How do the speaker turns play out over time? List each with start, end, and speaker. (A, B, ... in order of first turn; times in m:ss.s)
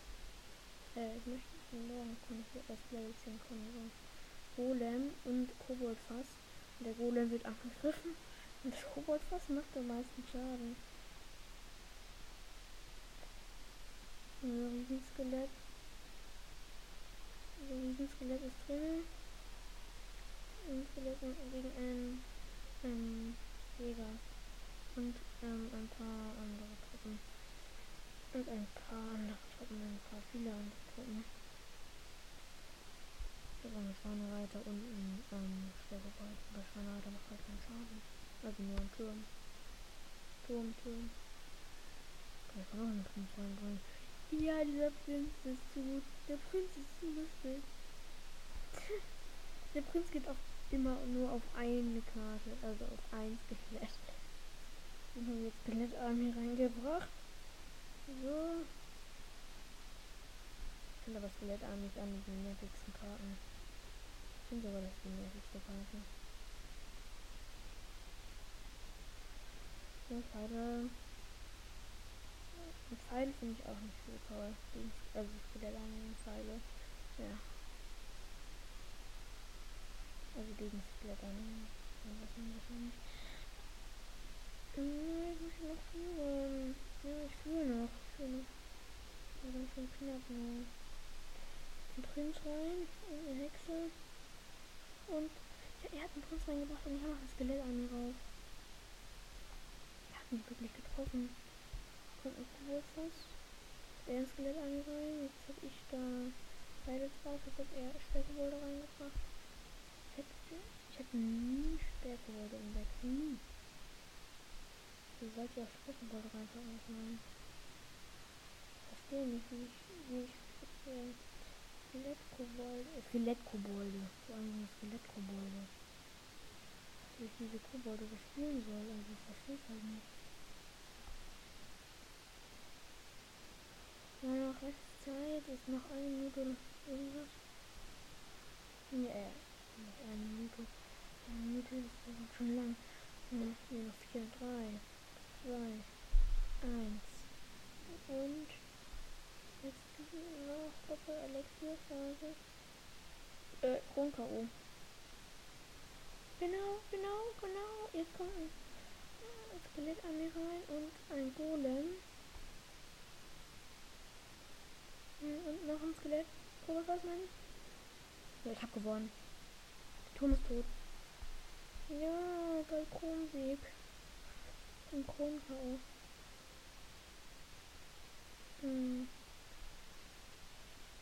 0:00.9-0:10.8 A
0:14.4-0:15.6 A
0:17.6-0:19.1 A
0:20.6-0:24.2 A
0:24.9-0:27.3 A
0:28.3-0:31.3 A
0:33.6-0:39.3 A
0:40.4-0:41.2 A
0:42.5-0:47.7 A
0:48.7-0:49.0 A
0:49.6-0:54.3 A
0:55.1-0:57.2 A
0:58.1-0:58.8 A
1:01.0-1:03.4 A
1:04.4-1:06.1 A
1:10.1-1:11.0 A
1:12.5-1:17.6 A
1:20.3-1:23.5 A
1:24.7-1:28.5 A
1:29.4-1:30.7 A
1:31.9-1:34.0 A
1:35.1-1:38.3 A
1:40.1-1:41.4 A
1:42.1-1:43.4 A
1:44.0-1:49.2 A
1:50.1-1:53.5 A
1:55.2-1:57.3 A
1:58.8-2:05.7 A
2:07.1-2:10.1 A
2:14.2-2:17.4 A
2:18.9-2:26.0 A
2:26.6-2:27.3 A
2:27.8-2:28.6 A
2:29.6-2:32.4 A
2:33.6-2:34.5 A
2:36.4-2:42.1 A
2:45.2-2:47.4 A
2:48.4-2:49.2 A
2:50.1-2:50.7 A
2:51.9-2:53.8 A
2:54.9-2:55.8 A
2:58.6-2:59.2 A